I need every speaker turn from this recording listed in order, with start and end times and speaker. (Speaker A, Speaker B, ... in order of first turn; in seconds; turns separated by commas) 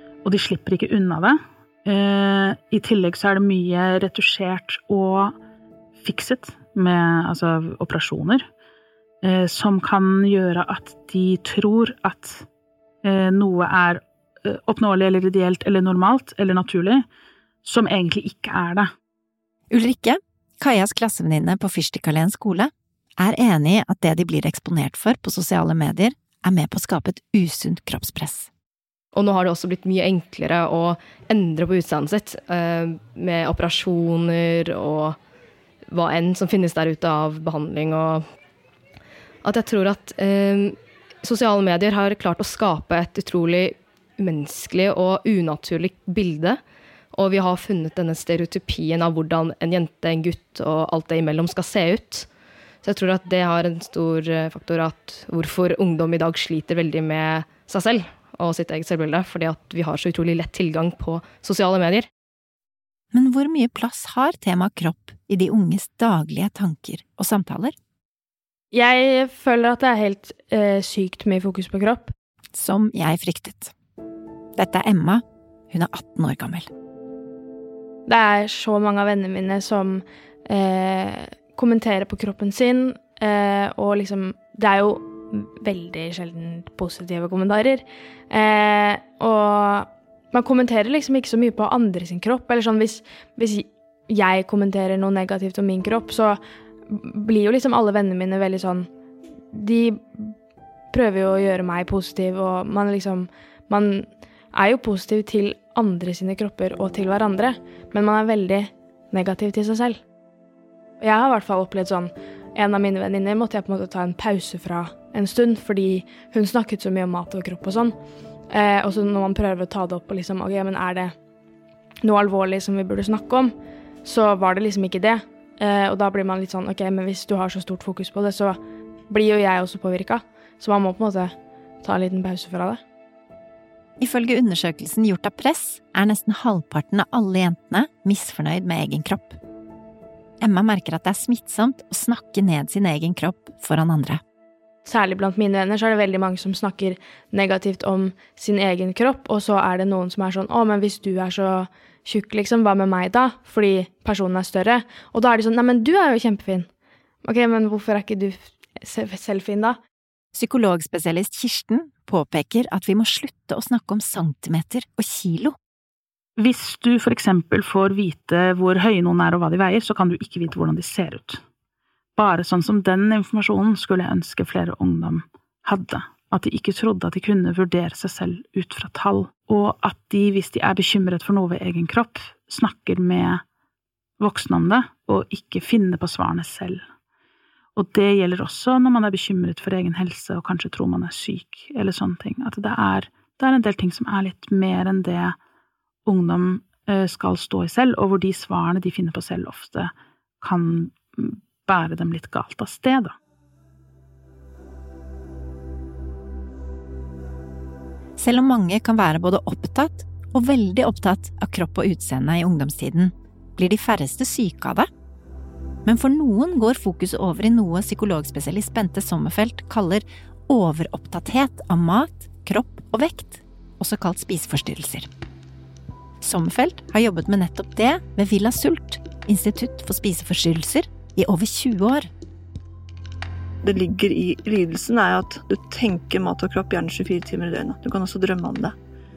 Speaker A: 0.2-5.3, Speaker A: 6.0-8.5, Speaker A: 9.2-12.4, Speaker A: 13.0-17.1, Speaker A: 17.6-18.9, Speaker B: 19.7-28.5, Speaker C: 29.1-35.2, Speaker C: 35.9-38.2, Speaker C: 39.4-46.6, Speaker C: 47.1-52.3, Speaker C: 52.8-62.1, Speaker B: 63.1-67.7, Speaker D: 68.7-72.1, Speaker B: 72.5-73.7, Speaker B: 74.6-76.7, Speaker D: 78.0-98.9, Speaker D: 99.5-100.3, Speaker D: 100.9-110.0, Speaker D: 111.0-118.0, Speaker D: 118.5-121.1, Speaker D: 122.0-132.8, Speaker B: 134.0-139.4, Speaker B: 140.4-144.2, Speaker D: 144.8-156.7, Speaker D: 157.2-159.8, Speaker B: 160.3-165.6, Speaker A: 166.4-171.4, Speaker A: 172.2-183.4, Speaker A: 184.2-186.8, Speaker A: 187.7-195.3, Speaker A: 196.1-203.1, Speaker B: 208.2-214.9, Speaker B: 215.8-225.1, Speaker B: 226.2-232.1, Speaker E: 233.6-238.7